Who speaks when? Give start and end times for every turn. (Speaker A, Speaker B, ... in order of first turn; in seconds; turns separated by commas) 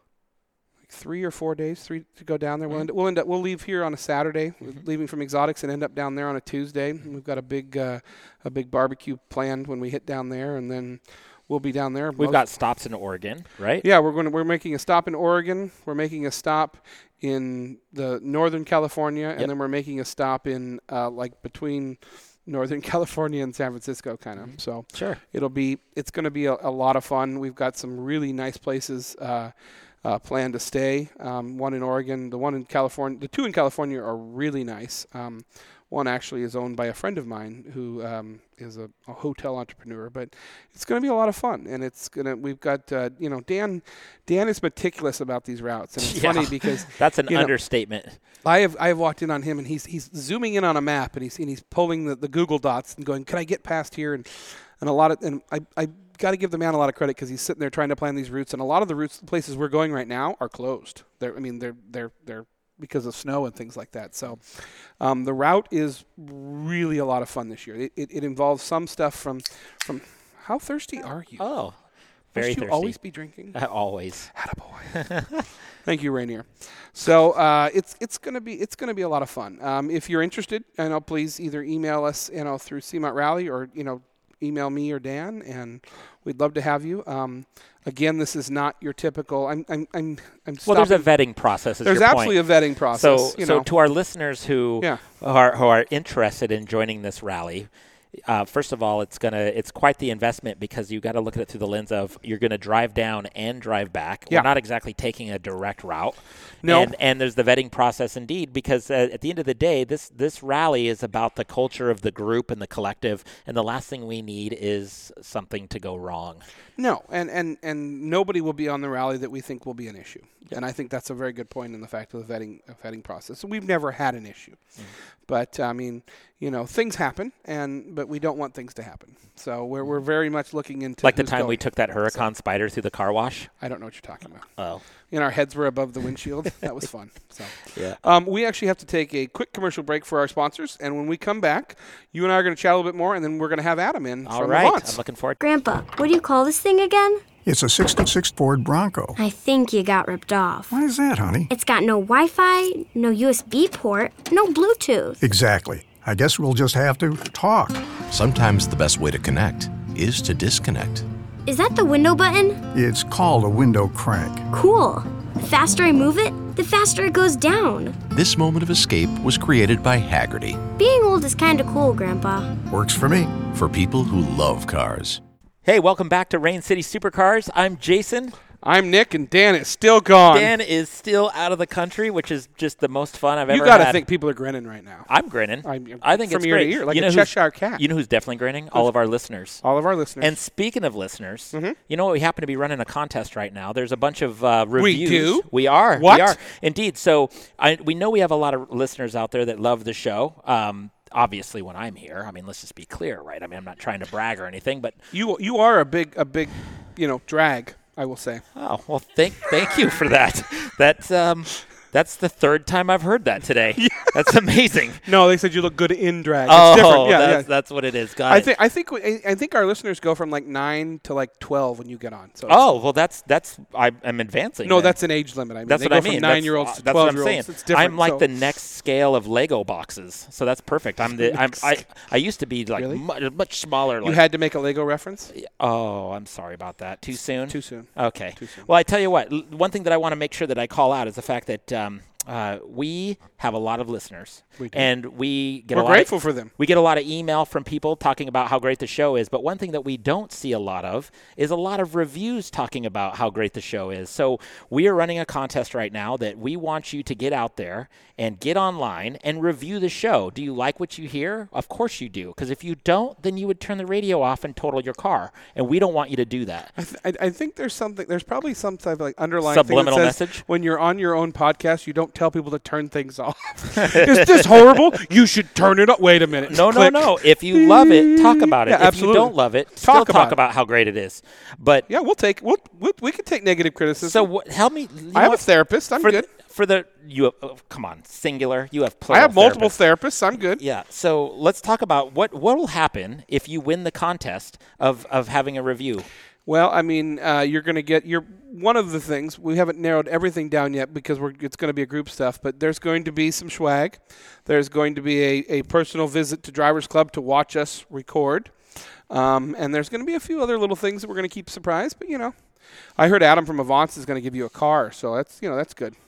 Speaker A: 0.9-12.4, Speaker B: 12.2-13.8, Speaker A: 13.8-47.5, Speaker B: 24.5-25.2, Speaker B: 46.0-48.2, Speaker A: 48.4-71.5, Speaker B: 71.4-71.8, Speaker B: 72.3-74.3, Speaker A: 72.3-73.6, Speaker A: 74.3-75.2, Speaker B: 75.0-75.4, Speaker A: 75.8-91.1, Speaker B: 90.7-97.7, Speaker A: 91.8-93.7, Speaker B: 98.2-116.4, Speaker A: 106.6-106.9, Speaker A: 116.8-124.6, Speaker A: 125.3-132.2, Speaker B: 131.0-133.5, Speaker A: 133.6-134.5, Speaker B: 134.6-134.8, Speaker A: 135.1-145.0, Speaker B: 137.7-138.0, Speaker B: 144.3-145.4, Speaker C: 145.4-147.2, Speaker D: 147.5-149.2, Speaker C: 149.2-150.8, Speaker D: 150.7-151.5, Speaker C: 151.5-155.2, Speaker D: 155.2-158.0, Speaker E: 158.1-161.1, Speaker C: 161.5-162.6, Speaker D: 162.7-164.4, Speaker C: 164.5-168.0, Speaker E: 168.1-170.6, Speaker C: 170.8-172.5, Speaker E: 172.7-175.2, Speaker D: 172.8-173.3, Speaker B: 175.7-178.4, Speaker A: 178.6-180.5, Speaker B: 180.3-184.0, Speaker A: 183.5-185.1, Speaker B: 185.1-189.6, Speaker A: 185.6-187.8, Speaker A: 189.6-190.3, Speaker B: 190.2-205.0, Speaker A: 194.8-196.4, Speaker A: 205.1-208.4, Speaker B: 208.6-215.0, Speaker A: 213.8-214.2, Speaker A: 215.1-217.5, Speaker B: 216.5-218.5, Speaker A: 218.3-222.6, Speaker B: 222.5-225.0, Speaker A: 224.6-228.2, Speaker B: 225.7-234.2, Speaker A: 231.2-231.6, Speaker A: 232.8-233.0, Speaker A: 234.0-235.3, Speaker B: 235.3-266.7, Speaker A: 237.5-238.7, Speaker A: 244.6-244.9, Speaker A: 245.7-246.5, Speaker A: 266.8-280.4, Speaker B: 269.4-270.4, Speaker B: 276.5-281.9, Speaker A: 281.9-284.3, Speaker B: 284.0-289.8, Speaker A: 285.1-286.3, Speaker A: 289.1-290.6, Speaker B: 290.6-296.1, Speaker A: 296.5-308.6, Speaker A: 309.1-312.4, Speaker A: 313.0-316.0